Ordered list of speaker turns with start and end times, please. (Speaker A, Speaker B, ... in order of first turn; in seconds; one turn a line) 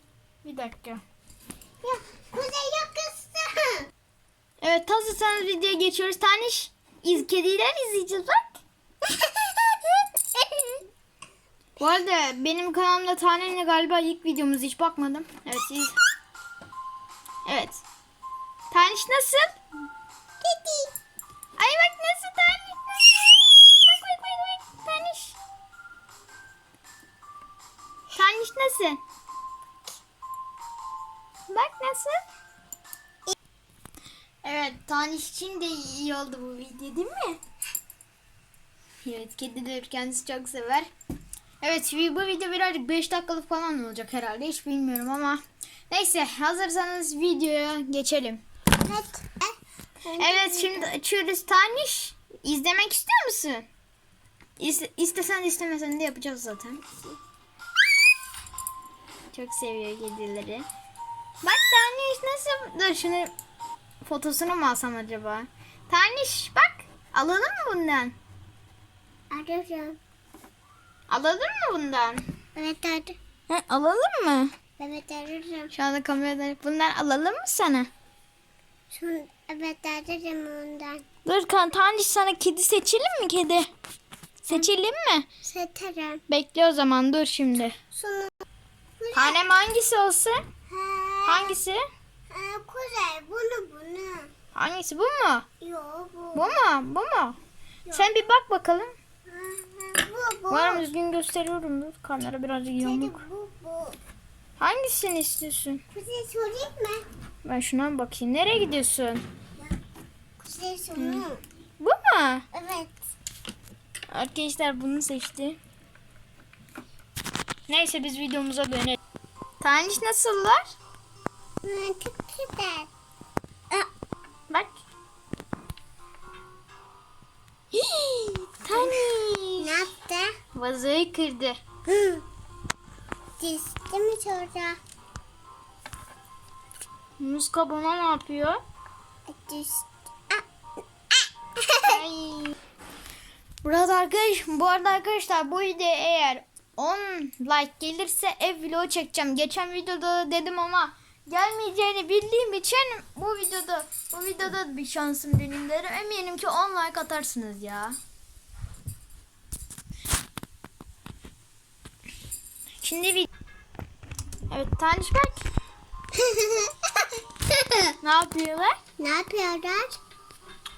Speaker A: 0.4-1.0
Speaker B: 1.8-3.9
Speaker A: 4.6-8.6
Speaker B: 9.0-10.8
Speaker A: 11.8-15.9
Speaker A: 17.4-17.8
Speaker A: 18.7-19.6
Speaker B: 20.4-20.9
Speaker A: 21.6-25.4
Speaker A: 28.1-29.0
Speaker A: 31.5-32.2
Speaker A: 34.4-37.4
Speaker A: 39.0-40.9
Speaker A: 41.6-48.4
Speaker B: 48.8-50.9
Speaker A: 50.2-53.7
Speaker A: 54.6-56.8
Speaker A: 59.3-60.6
Speaker A: 61.4-63.3
Speaker A: 64.0-68.1
Speaker B: 69.3-70.0
Speaker A: 71.1-72.2
Speaker B: 72.5-73.2
Speaker A: 73.5-74.5
Speaker B: 74.8-75.7
Speaker A: 75.7-77.9
Speaker B: 78.9-81.0
Speaker A: 81.2-83.7
Speaker A: 84.4-85.3
Speaker B: 85.4-86.2
Speaker A: 86.3-87.8
Speaker B: 87.9-88.3
Speaker B: 89.0-89.4
Speaker A: 89.1-90.4
Speaker B: 90.7-91.6
Speaker A: 91.2-91.8
Speaker B: 92.3-94.3
Speaker A: 94.5-95.5
Speaker B: 95.6-96.6
Speaker A: 96.3-97.4
Speaker B: 97.8-98.1
Speaker A: 97.9-98.9
Speaker B: 99.3-100.8
Speaker A: 100.5-103.2
Speaker B: 102.8-104.0
Speaker A: 104.6-105.8
Speaker B: 105.9-107.0
Speaker A: 107.4-109.2
Speaker B: 110.4-111.4
Speaker A: 111.0-111.3
Speaker A: 111.8-112.5
Speaker B: 112.5-113.0
Speaker A: 114.1-115.6
Speaker A: 117.7-119.0
Speaker A: 119.6-120.7
Speaker B: 121.6-122.9
Speaker A: 124.5-124.8
Speaker A: 127.7-129.8
Speaker B: 128.7-130.3
Speaker A: 130.5-131.6
Speaker B: 131.9-132.2
Speaker B: 133.4-134.8
Speaker A: 137.2-138.6
Speaker B: 139.3-140.4
Speaker B: 141.1-142.0
Speaker A: 141.8-142.5
Speaker A: 143.6-158.0
Speaker A: 162.8-163.3
Speaker A: 164.5-165.4
Speaker B: 166.1-167.9
Speaker A: 168.0-168.8
Speaker B: 169.0-170.0